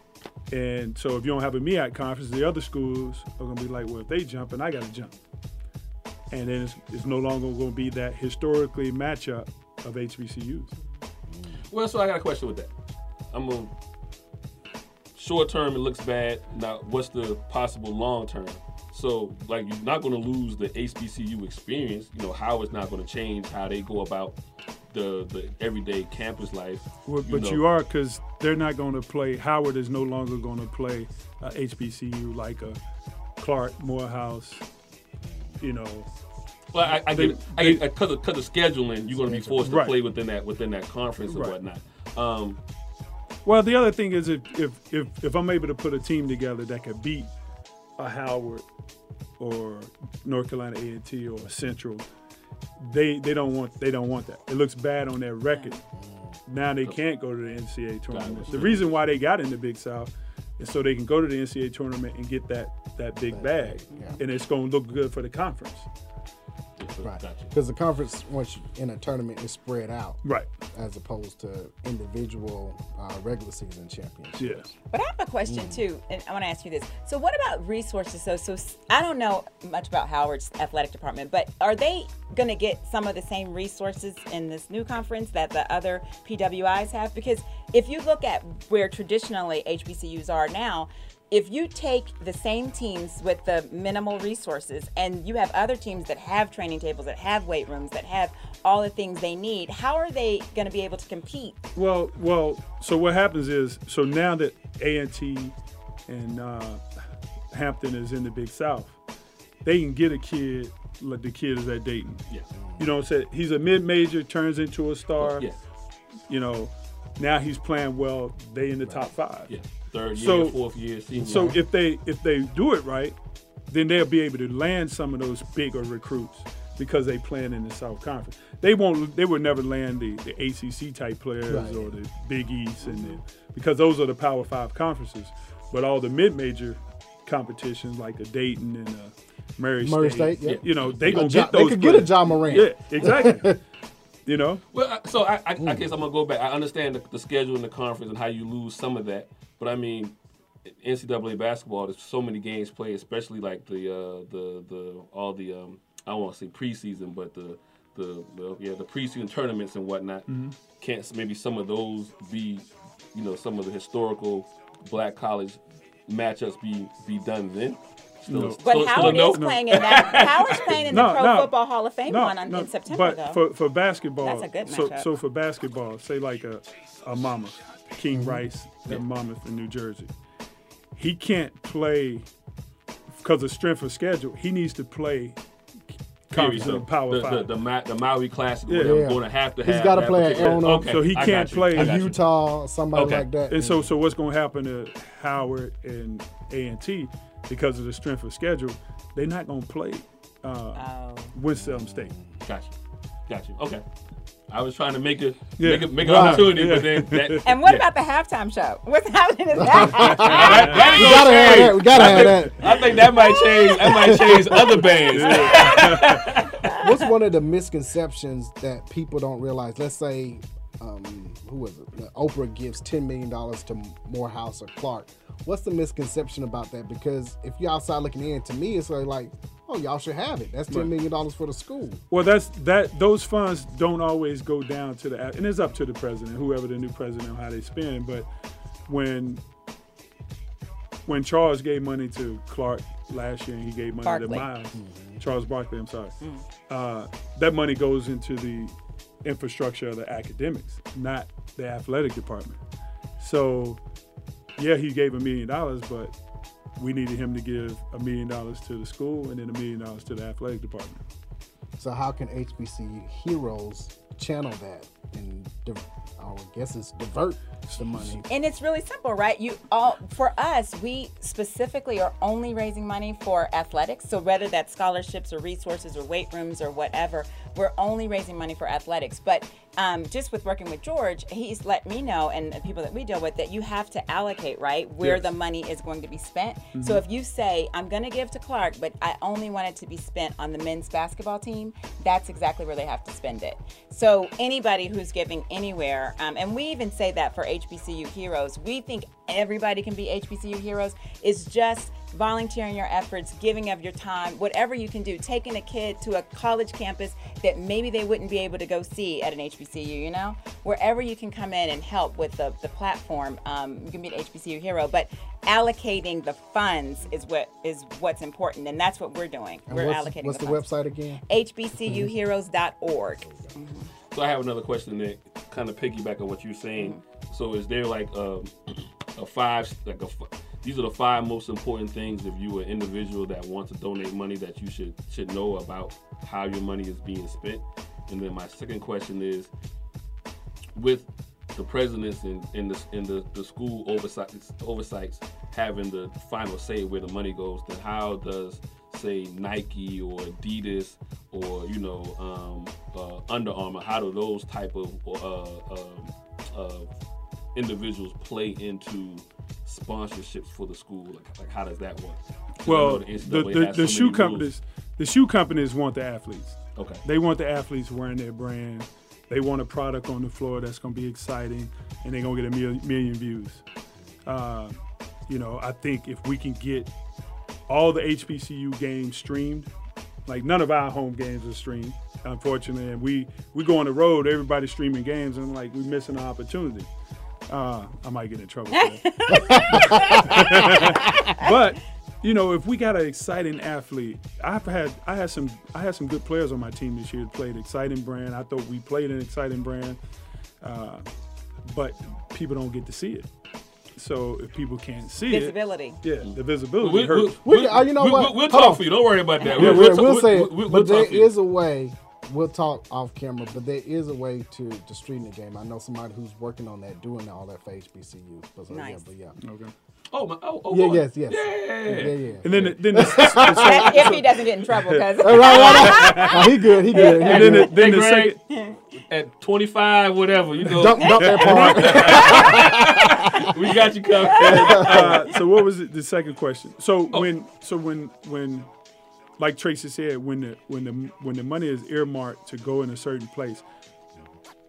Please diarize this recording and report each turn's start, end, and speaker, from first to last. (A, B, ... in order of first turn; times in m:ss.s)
0:00.5-0:05.2 A
0:06.3-0:10.7 A
0:11.3-0:11.6 B
0:11.7-0:12.7 C
0:13.3-0:13.7 C
0:15.2-0:24.4 C
0:24.9-0:27.6 C
0:27.1-0:32.8 A
0:33.4-0:34.6 A
0:35.2-0:35.6 B
0:35.6-0:36.1 A
0:36.7-0:42.6 C
0:36.8-0:37.8 A
0:39.1-0:39.6 B
0:39.6-0:40.0 A
0:41.3-0:41.6 A
0:43.4-0:47.3 A
0:48.0-0:48.7 A
0:49.4-0:52.1 A
0:52.8-0:55.8 A
0:56.0-0:56.4 B
0:56.5-1:05.9 A
0:58.1-0:59.0 C
1:03.3-1:04.2 B
1:03.9-1:04.2 D
1:06.8-1:07.5 C
1:07.0-1:10.2 B
1:10.2-1:10.5 A
1:10.7-1:14.7 B
1:14.4-1:14.7 A
1:14.9-1:41.6 D
1:15.5-1:15.8 B
1:41.8-1:45.6 A
1:46.1-1:46.8 A
1:47.5-1:49.0 A
1:49.6-1:52.2 A
1:52.6-1:52.9 B
1:52.8-1:55.5 A
1:55.2-1:55.6 C
1:56.3-1:59.5 A
1:58.9-1:59.1 B
1:59.5-2:01.6 C
2:00.1-2:00.6 A
2:01.2-2:03.2 A
2:01.2-2:01.6 B
2:03.7-2:23.6 A
2:11.5-2:12.0 B
2:12.8-2:13.2 D
2:19.8-2:23.6 B
2:20.4-2:21.1 C
2:24.3-2:24.6 A
2:24.7-2:30.1 C
2:30.7-2:50.9 C
2:40.3-2:40.6 A
2:48.3-3:00.1 A
2:48.6-2:53.4 D
2:54.2-2:55.1 D
2:58.1-2:58.4 B
3:00.9-3:02.3 A
3:03.1-3:05.4 A
3:06.3-3:07.5 A
3:06.3-3:12.2 C
3:08.7-3:09.1 A
3:08.8-3:11.0 B
3:10.6-3:12.1 A
3:11.8-3:13.9 B
3:12.9-3:13.3 C
3:13.5-3:22.1 A
3:20.8-3:21.4 D
3:21.5-3:22.3 B
3:22.4-3:22.8 C
3:23.3-3:23.8 C
3:24.5-3:27.8 C
3:25.6-3:27.6 A
3:26.1-3:26.5 B
3:27.4-3:31.7 D
3:29.6-3:33.0 B
3:29.9-3:36.6 C
3:30.0-3:31.0 A
3:32.6-3:34.2 D
3:33.8-3:34.8 B
3:35.1-3:36.3 A
3:36.7-3:37.1 D
3:36.7-3:52.0 B
3:52.1-3:58.3 A
3:58.9-3:59.4 A
4:01.1-4:12.6 A
4:04.0-4:04.5 D
4:04.7-4:05.2 B
4:13.2-4:13.8 A
4:14.6-4:16.1 A
4:16.8-4:21.0 A
4:21.8-4:28.3 B
4:27.7-4:28.2 A
4:28.3-5:20.7 D
4:46.7-4:47.0 A
5:19.7-5:21.2 B
5:21.3-5:23.9 D
5:21.8-5:22.1 B
5:23.2-5:23.6 B
5:24.1-5:28.5 C
5:29.2-5:39.5 C
5:40.8-5:56.9 C
5:57.6-6:04.5 C
6:02.6-6:13.6 A
6:06.8-6:07.0 C
6:14.2-6:16.9 A
6:17.7-6:19.7 A
6:20.3-6:26.9 A
6:27.5-6:40.0 A
6:28.8-6:31.1 D
6:29.3-6:30.9 B
6:40.6-6:41.1 A
6:41.6-6:43.3 A
6:44.0-6:47.4 A
6:45.3-6:46.0 D
6:46.2-6:51.3 C
6:47.4-6:48.9 B
6:49.5-6:59.4 B
6:49.6-6:50.0 A
6:58.7-6:59.0 D
6:59.4-6:59.7 A
7:00.1-7:02.7 C
7:00.7-7:04.1 B
7:02.4-7:08.4 A
7:03.6-7:07.1 D
7:05.2-7:07.7 B
7:05.5-7:06.2 C
7:06.9-7:08.4 C
7:08.5-7:08.8 D
7:09.1-7:15.2 C
7:10.8-7:13.4 B
7:11.0-7:12.5 D
7:11.2-7:12.8 A
7:14.2-7:15.0 D
7:14.4-7:18.7 A
7:14.7-7:15.1 B
7:19.4-7:23.6 A